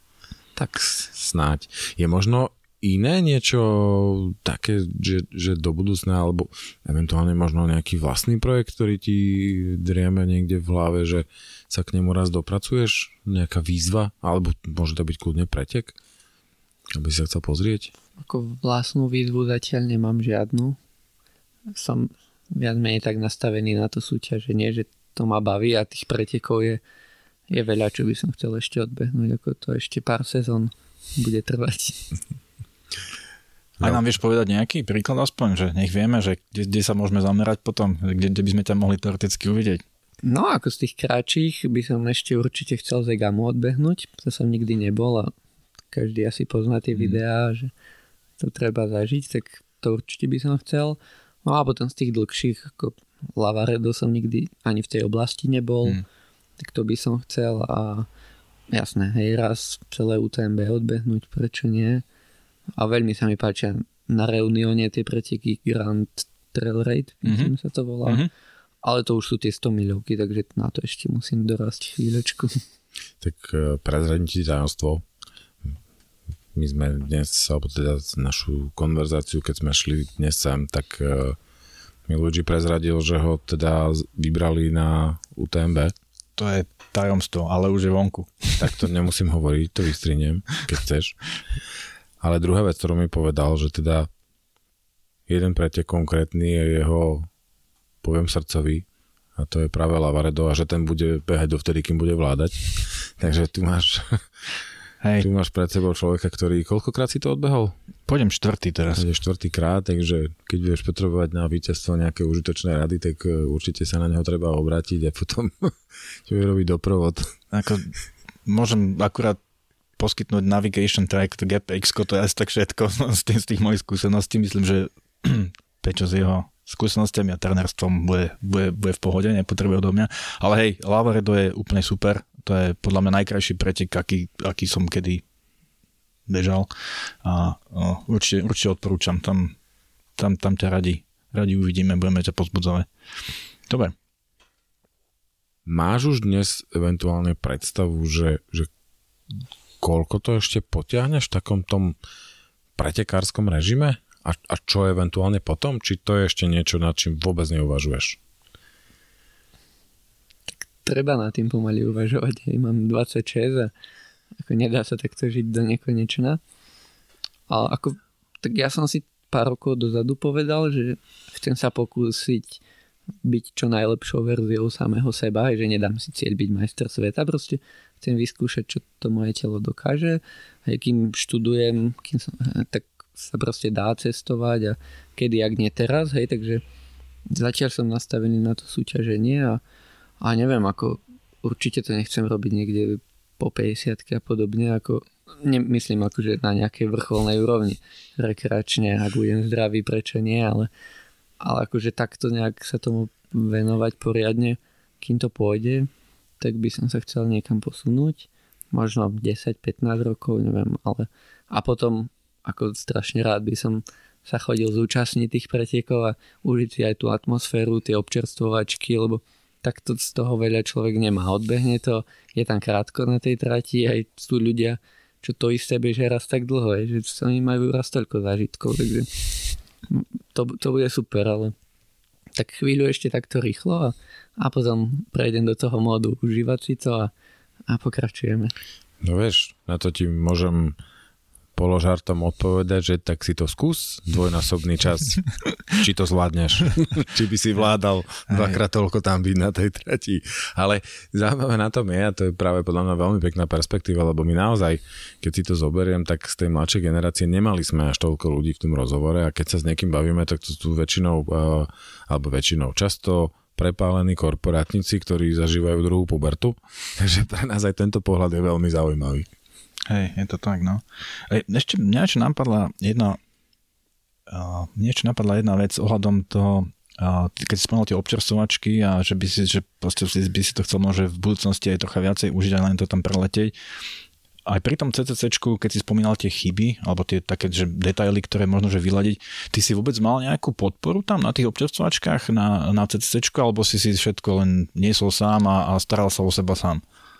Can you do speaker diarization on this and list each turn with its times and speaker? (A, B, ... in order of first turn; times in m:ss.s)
0:00.8-0:15.9 A
0:16.9-0:17.9 A
0:18.2-0:20.8 B
0:21.7-0:26.8 B
0:27.5-0:32.1 B
0:33.8-0:39.8 C
0:40.2-0:45.3 B
0:45.9-0:47.7 B
0:48.4-0:56.0 B
0:56.6-0:58.1 B
0:58.7-1:02.0 B
1:02.8-1:08.3 B
1:07.2-1:07.5 C
1:08.8-1:12.6 B
1:13.2-1:15.0 A
1:16.5-1:21.4 A
1:22.1-1:25.9 A
1:26.4-1:28.7 C
1:28.6-1:31.2 A
1:32.2-1:34.1 A
1:35.3-1:37.3 A
1:38.0-1:38.8 A
1:39.4-1:44.3 A
1:45.0-1:45.3 C
1:45.2-1:47.7 A
1:48.1-1:49.0 C
1:49.0-1:57.3 A
1:57.5-1:57.9 C
1:58.4-1:59.4 C
2:00.0-2:15.2 C
2:16.3-2:16.7 C
2:17.2-2:19.6 C
2:20.2-2:22.9 C
2:23.7-2:23.9 C
2:25.6-2:28.7 A
2:29.8-2:32.0 A
2:32.8-2:38.2 A
2:40.6-2:43.7 B
2:44.4-2:46.4 B
2:47.5-2:52.6 B
2:53.2-3:06.6 B
3:07.3-3:09.6 B
3:10.2-3:20.7 B
3:21.4-3:49.3 B
3:49.9-3:51.5 B
3:52.4-3:57.1 B
3:57.7-3:58.5 B
3:59.0-4:00.8 A
4:01.6-4:29.3 A
4:08.3-4:08.6 C
4:29.9-4:33.2 C
4:34.3-4:43.5 C
4:44.5-4:56.8 C